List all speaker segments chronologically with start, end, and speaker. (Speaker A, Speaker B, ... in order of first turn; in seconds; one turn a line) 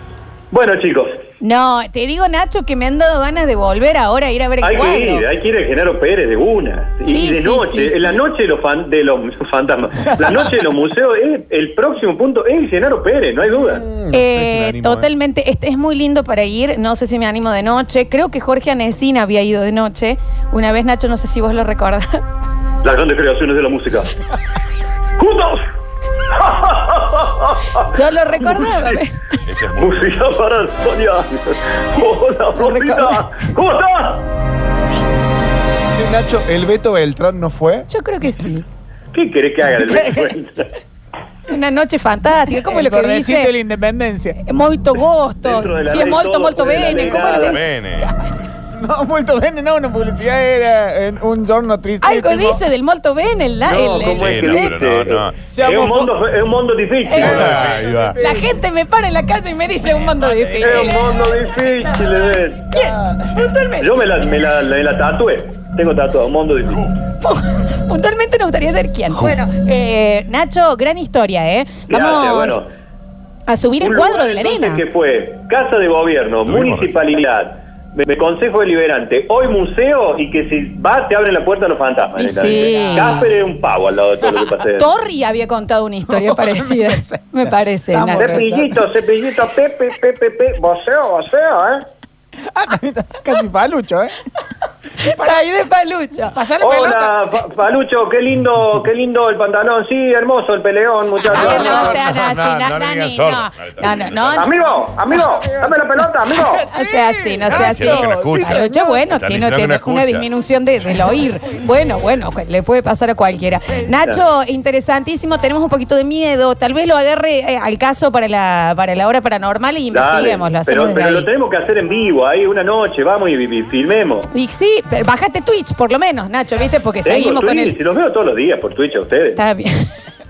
Speaker A: 0.5-1.2
Speaker B: 1.4-5.2
Speaker A: 4.6-13.9
Speaker B: 7.0-8.2
Speaker C: 13.7-15.1
Speaker B: 14.1-22.2
Speaker A: 22.8-24.1
Speaker A: 25.2-25.6
Speaker A: 26.3-27.9
Speaker B: 27.8-29.4
Speaker D: 29.5-30.2
Speaker A: 29.8-34.2
Speaker B: 31.9-33.5
Speaker C: 35.9-37.9
Speaker B: 37.9-38.6
Speaker A: 39.1-40.7
Speaker E: 39.8-40.3
Speaker B: 41.5-43.5
Speaker E: 42.7-44.4
Speaker B: 44.4-47.6
Speaker A: 45.4-47.6
Speaker D: 47.3-48.1
Speaker E: 48.7-52.6
Speaker B: 52.0-54.7
Speaker D: 53.7-55.4
Speaker A: 53.7-57.7
Speaker E: 55.5-56.1
Speaker B: 57.0-57.6
Speaker D: 57.1-58.2
Speaker C: 57.2-58.0
Speaker E: 57.6-58.5
Speaker B: 58.2-64.1
Speaker A: 60.6-62.7
Speaker A: 63.8-66.9
Speaker B: 67.2-72.6
Speaker A: 71.9-72.7
Speaker B: 73.5-74.8
Speaker A: 73.8-84.9
Speaker D: 76.5-77.0
Speaker B: 82.2-83.3
Speaker E: 82.4-83.2
Speaker B: 84.8-88.5
Speaker E: 86.1-88.8
Speaker A: 88.2-91.9
Speaker E: 92.5-94.2
Speaker B: 95.0-97.2
Speaker A: 96.6-102.0
Speaker B: 101.2-105.2
Speaker D: 101.3-104.5
Speaker E: 101.3-101.6
Speaker A: 104.4-106.7
Speaker E: 106.3-109.0
Speaker B: 106.7-121.3
Speaker D: 107.5-110.3
Speaker A: 119.9-124.3
Speaker B: 124.3-127.8
Speaker A: 127.0-129.4
Speaker B: 129.4-129.9